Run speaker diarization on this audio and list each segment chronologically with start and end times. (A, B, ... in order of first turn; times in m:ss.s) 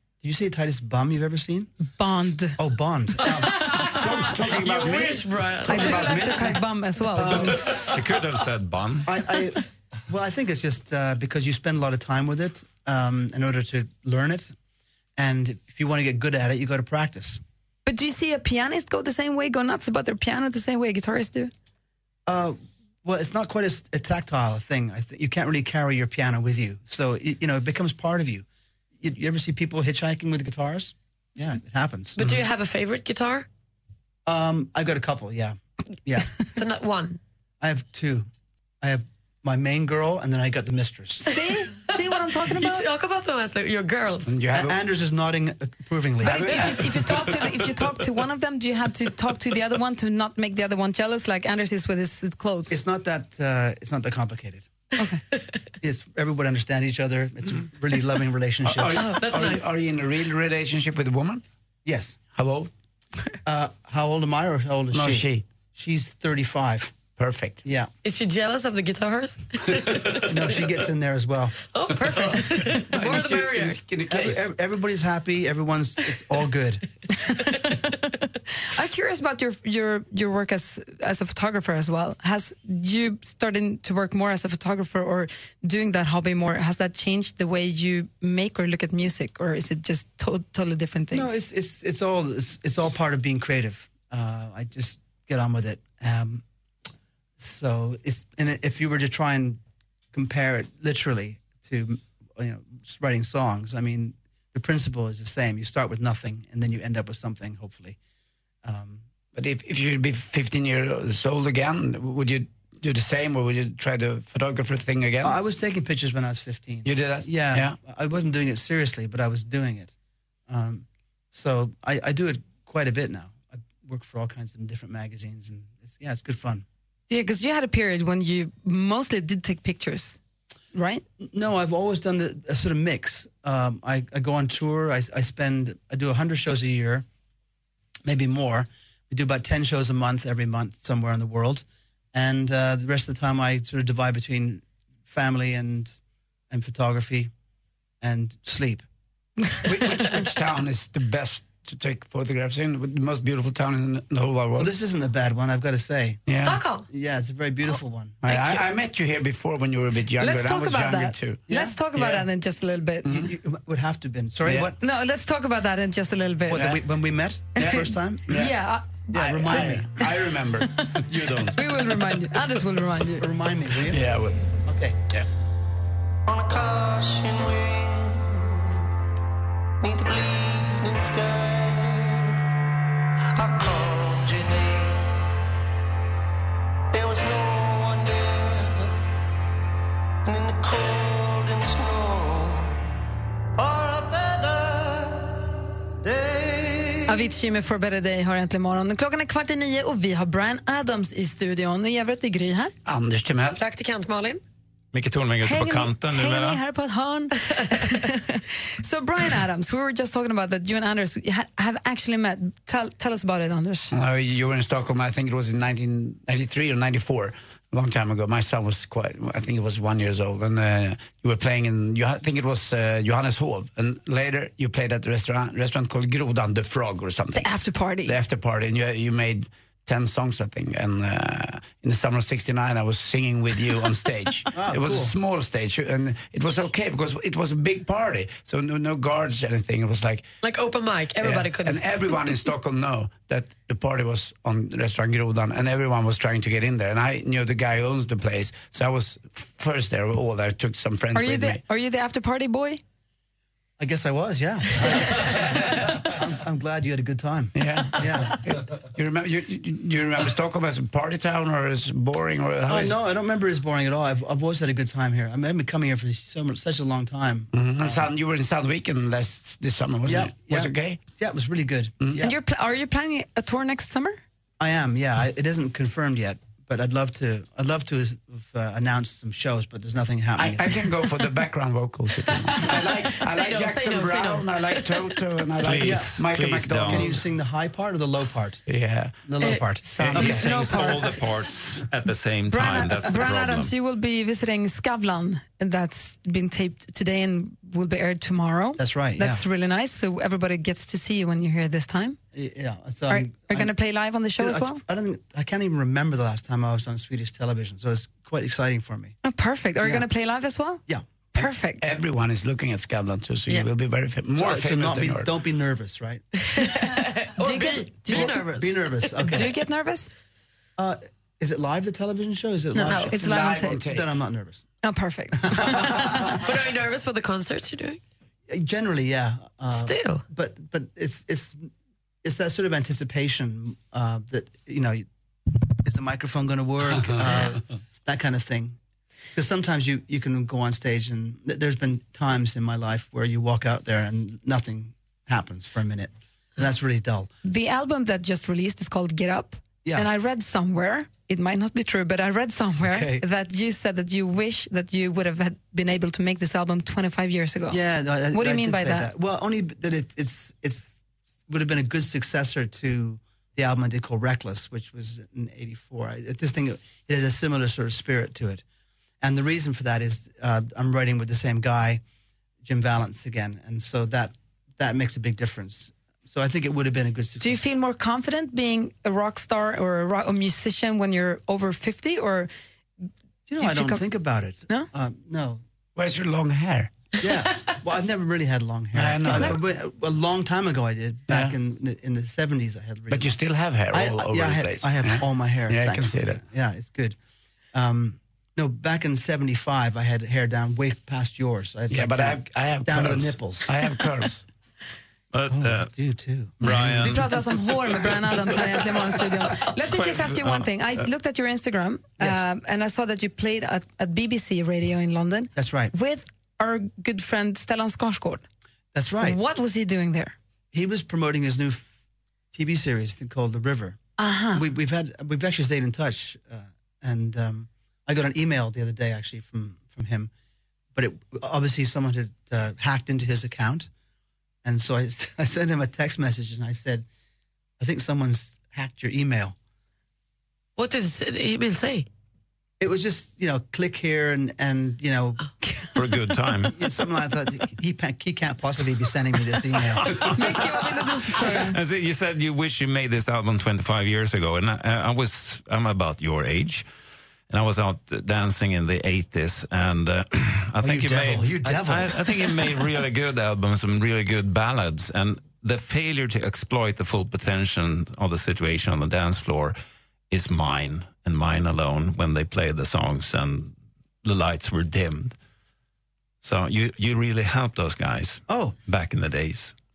0:00.2-0:01.7 A
0:02.0-0:02.6 B
0:02.6-0:03.7 A
0:03.6-0:06.3 C
0:03.6-0:06.6 D
0:05.6-0:07.6 B
0:07.1-0:07.9 A
0:07.6-0:09.1 E
0:09.0-0:14.5 A
0:15.2-0:17.4 A
0:17.8-0:21.5 B
0:22.3-0:28.4 A
0:29.0-0:32.2 A
0:32.2-0:33.5 C
0:34.2-0:36.4 A
0:36.5-0:37.2 C
0:37.6-0:38.3 A
0:38.8-0:41.4 A
0:41.3-0:42.8 B
0:42.4-0:44.3 C
0:44.2-0:44.8 D
0:44.5-0:47.2 A
0:46.2-0:52.8 B
0:52.7-0:54.7 A
0:55.0-0:55.2 B
0:55.8-0:59.0 A
0:58.6-1:01.4 D
0:58.9-0:59.7 C
1:01.8-1:02.2 A
1:02.3-1:02.7 D
1:03.4-1:07.0 A
1:04.9-1:05.4 D
1:07.2-1:07.6 D
1:07.6-1:07.9 A
1:08.0-1:10.6 C
1:10.3-1:11.6 A
1:11.7-1:13.8 C
1:12.0-1:14.5 D
1:14.1-1:16.8 A
1:17.2-1:17.8 B
1:18.6-1:31.4 B
1:31.1-1:36.4 A
1:37.4-1:39.6 A
1:40.1-1:48.0 A
1:48.6-1:49.0 A
1:49.3-1:55.4 D
1:55.2-1:59.9 A
1:56.8-1:57.8 D
2:00.5-2:06.6 A
2:07.1-2:10.2 B
2:10.7-2:11.0 B
2:11.2-2:17.0 A
2:18.0-2:26.0 A
2:26.5-2:27.3 A
2:28.0-2:28.8 A
2:29.6-2:34.7 D
2:34.6-2:36.2 A
2:36.3-2:36.6 D
2:36.4-2:36.8 C
2:36.9-2:38.2 A
2:38.2-2:41.4 D
2:40.2-2:43.1 B
2:41.5-2:41.8 A
2:41.9-2:42.2 D
2:43.0-2:43.3 D
2:43.1-2:44.8 A
2:44.4-2:44.7 D
2:44.8-2:46.7 B
2:46.5-2:48.4 A
2:46.5-2:46.8 D
2:47.6-2:48.5 D
2:48.3-2:49.8 B
2:49.1-2:49.9 A
2:49.1-2:51.9 D
2:51.5-2:53.2 B
2:53.2-2:54.0 A
2:53.9-2:54.4 D
2:54.6-2:55.0 A
2:56.3-2:58.7 F
2:59.8-3:02.4 F
3:03.3-3:05.1 F
3:06.9-3:09.0 F
3:10.2-3:12.8 F
3:13.6-3:15.4 F
3:16.0-3:17.1 F
3:17.1-3:22.7 B
3:22.8-3:23.6 D
3:23.6-3:24.4 C
3:24.9-3:26.6 E
3:25.4-3:33.9 B
3:33.9-3:47.5 D
3:47.3-3:48.2 B
3:48.0-4:00.3 D
3:54.5-3:55.1 A
4:00.4-4:02.1 C
4:01.2-4:11.6 D
4:11.1-4:12.8 B
4:13.8-4:18.4 A
4:17.5-4:23.0 D
4:22.7-4:28.1 A
4:27.5-4:31.0 D
4:30.0-4:32.4 A
4:32.2-4:34.2 B
4:34.6-4:40.8 A
4:40.4-4:47.2 D
4:42.3-4:45.2 C
4:45.6-4:47.1 E
4:45.8-4:46.2 A
4:46.8-4:48.6 A
4:48.7-4:49.2 D
4:49.2-4:51.2 A
4:49.8-4:50.5 D
4:50.0-4:53.7 E
4:50.2-4:51.1 B
4:52.5-5:02.2 B
4:58.8-4:59.4 A
5:02.3-5:03.7 A
5:03.1-5:04.8 B
5:04.4-5:09.2 A
5:09.2-5:11.8 B
5:11.8-5:15.3 D
5:14.4-5:16.2 A
5:16.5-5:18.9 C
5:17.4-5:18.4 B
5:18.1-5:19.5 A
5:19.3-5:20.1 B
5:20.8-5:24.6 A
5:22.7-5:23.8 B
5:22.8-5:24.1 D
5:24.8-5:26.3 B
5:25.5-5:26.4 A
5:26.2-5:28.0 C
5:28.5-5:31.7 A
5:29.7-5:30.2 C
5:32.2-5:35.0 A
5:35.8-5:38.8 A
5:39.3-5:47.3 A
5:47.4-5:57.8 B
5:52.8-5:53.2 A
5:57.7-6:08.6 A
5:58.3-5:59.1 B
6:09.2-6:12.0 A
6:12.6-6:17.6 A
6:17.4-6:22.5 B
6:23.5-6:25.6 A
6:23.6-6:24.0 B
6:26.0-6:26.9 D
6:27.2-6:33.4 A
6:28.9-6:29.6 D
6:29.2-6:29.6 B
6:31.3-6:31.5 D
6:33.1-6:36.4 D
6:33.9-6:37.2 A
6:37.7-6:43.7 A
6:41.9-6:44.4 D
6:45.3-6:45.9 E
6:45.5-6:46.9 A
6:46.6-6:47.4 E
6:47.0-6:58.4 B
6:49.9-6:50.7 E
6:55.6-6:55.9 A
6:58.9-6:59.4 A
6:59.2-7:00.3 B
7:00.7-7:01.9 A
7:02.5-7:04.0 A
7:04.2-7:04.6 B
7:04.5-7:10.3 A
7:10.9-7:13.9 A
7:14.6-7:17.0 A
7:17.8-7:19.5 A
7:20.8-7:22.0 C
7:22.8-7:25.4 A
7:25.9-7:26.8 E
7:26.7-7:30.3 A
7:30.0-7:30.4 E
7:30.3-7:31.8 B
7:31.6-7:36.8 E
7:37.5-7:49.8 E
7:40.8-7:42.7 A
7:50.3-7:55.3 E
7:56.4-7:59.7 E
7:58.5-7:58.8 A